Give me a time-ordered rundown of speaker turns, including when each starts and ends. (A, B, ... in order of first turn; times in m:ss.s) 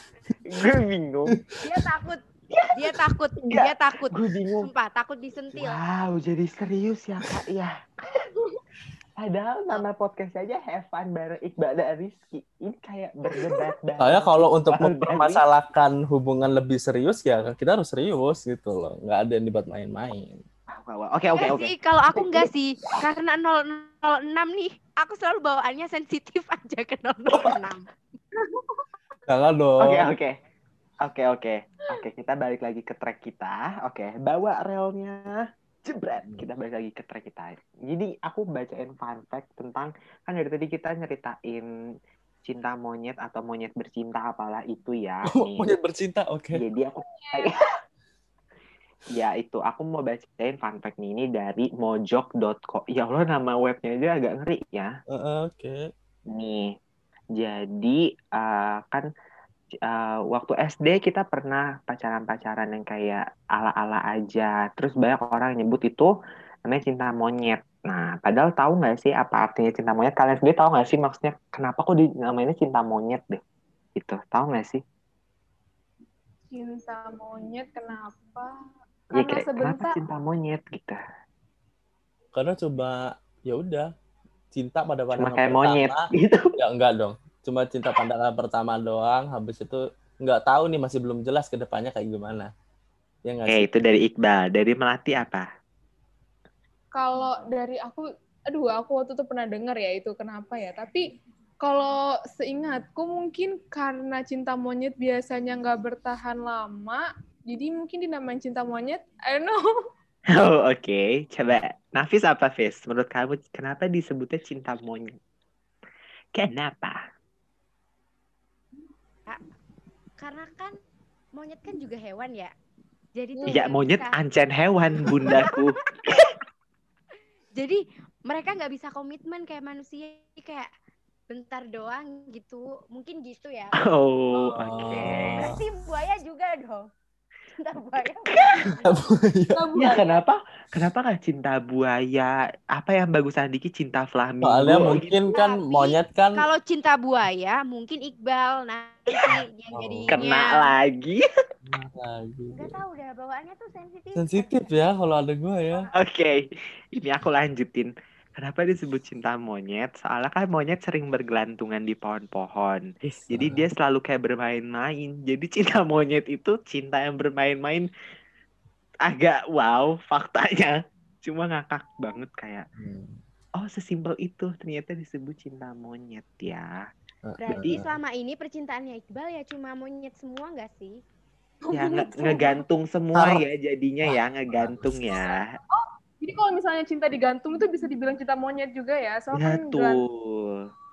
0:00.5-0:01.3 A
0:01.6-0:02.2 B
0:02.5-0:03.0 A
0:02.7-0:05.8 B
0:03.5-0:04.7 A
0:05.5-0:08.3 A
0:09.2-0:15.4 A
0:13.3-0:13.6 C
0:14.0-0:20.4 D
0:20.7-0:23.0 A
0:21.3-0:27.9 B
0:28.5-0:28.8 C
0:29.3-0:30.1 D
0:29.8-0:30.4 A
0:31.0-0:41.7 A
0:42.4-0:45.7 A
0:45.3-0:46.6 D
0:46.5-0:47.7 A
0:47.0-0:47.5 C
0:49.1-0:54.9 A
0:55.1-0:55.9 D
0:56.3-0:56.7 A
0:57.4-0:59.1 A
0:59.8-1:06.1 A
1:06.6-1:13.4 A
1:14.0-1:14.8 A
1:16.5-1:18.6 C
1:19.1-1:20.0 C
1:19.1-1:21.0 A
1:22.3-1:23.9 D
1:24.5-1:32.5 D
1:25.2-1:26.6 A
1:33.3-1:33.7 D
1:33.5-1:35.5 A
1:37.0-1:41.0 C
1:41.6-1:49.6 C
1:50.3-1:55.2 A
1:56.4-1:57.0 A
2:00.2-2:00.7 B
2:01.4-2:02.5 B
2:03.2-2:04.2 B
2:03.4-2:03.7 C
2:03.5-2:05.8 A
2:05.2-2:05.6 B
2:07.6-2:10.7 B
2:11.3-2:13.8 B
2:13.8-2:15.5 A
2:14.6-2:15.5 D
2:15.0-2:16.9 B
2:17.6-2:19.0 B
2:18.8-2:19.6 D
2:19.6-2:20.2 C
2:19.8-2:25.2 A
2:24.4-2:26.4 D
2:25.3-2:30.7 B
2:29.7-2:30.2 D
2:30.1-2:31.2 A
2:31.6-2:32.8 D
2:32.5-2:34.8 B
2:34.2-2:35.9 D
2:36.0-2:36.4 A
2:37.0-2:47.9 A
2:43.0-2:43.6 D
2:49.1-2:52.7 A
2:52.8-2:53.2 D
2:53.6-2:56.8 A
2:57.3-2:57.9 D
2:57.4-3:01.0 B
2:57.5-2:57.8 A
3:01.6-3:02.6 C
3:01.7-3:05.6 A
3:03.2-3:03.4 D
3:04.1-3:05.0 D
3:05.7-3:10.0 C
3:09.3-3:10.7 A